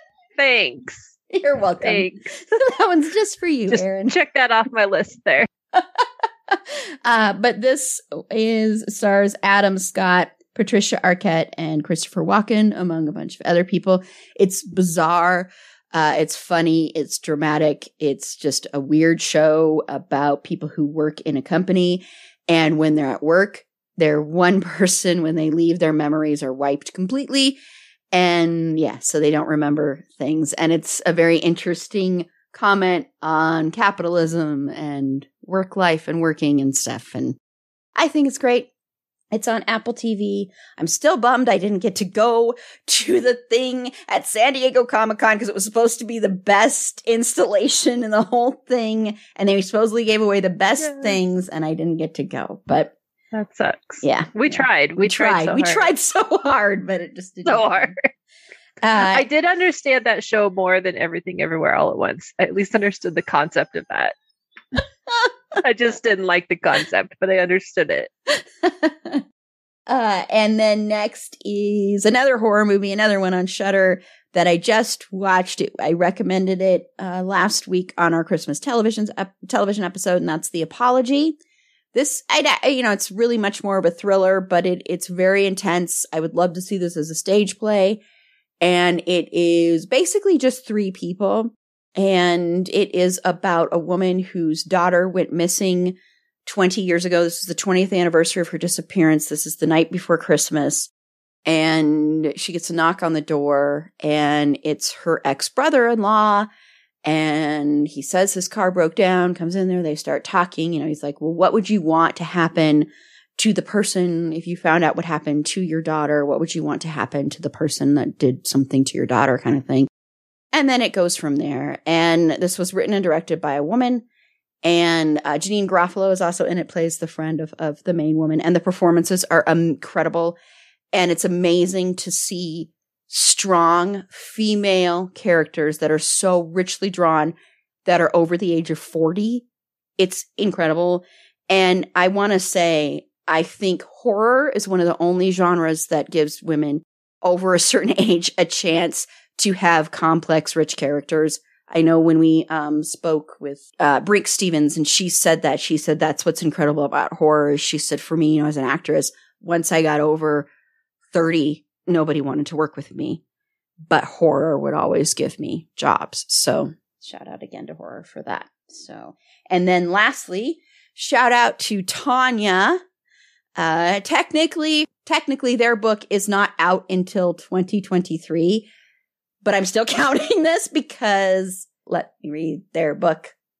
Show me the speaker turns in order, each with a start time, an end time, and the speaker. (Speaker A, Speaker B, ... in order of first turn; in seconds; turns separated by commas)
Speaker A: 0.4-1.2, Speaker B: 1.3-4.1, Speaker A: 1.8-2.6, Speaker A: 3.7-5.5, Speaker B: 5.7-27.6, Speaker B: 28.1-37.4, Speaker B: 38.0-38.7, Speaker B: 39.3-52.9, Speaker A: 50.8-51.2, Speaker A: 53.3-55.9, Speaker B: 54.0-57.9, Speaker A: 57.4-58.0, Speaker B: 58.8-59.2, Speaker A: 59.0-64.1, Speaker A: 65.6-68.1, Speaker B: 68.3-69.2, Speaker B: 69.9-81.4, Speaker B: 81.9-88.0, Speaker B: 88.6-100.9, Speaker B: 101.5-106.5, Speaker B: 107.0-119.9, Speaker B: 120.5-124.0, Speaker B: 124.6-130.3, Speaker B: 130.9-139.4, Speaker B: 140.0-160.5, Speaker B: 161.1-163.2, Speaker B: 163.9-172.8, Speaker B: 173.6-178.7, Speaker B: 179.4-183.3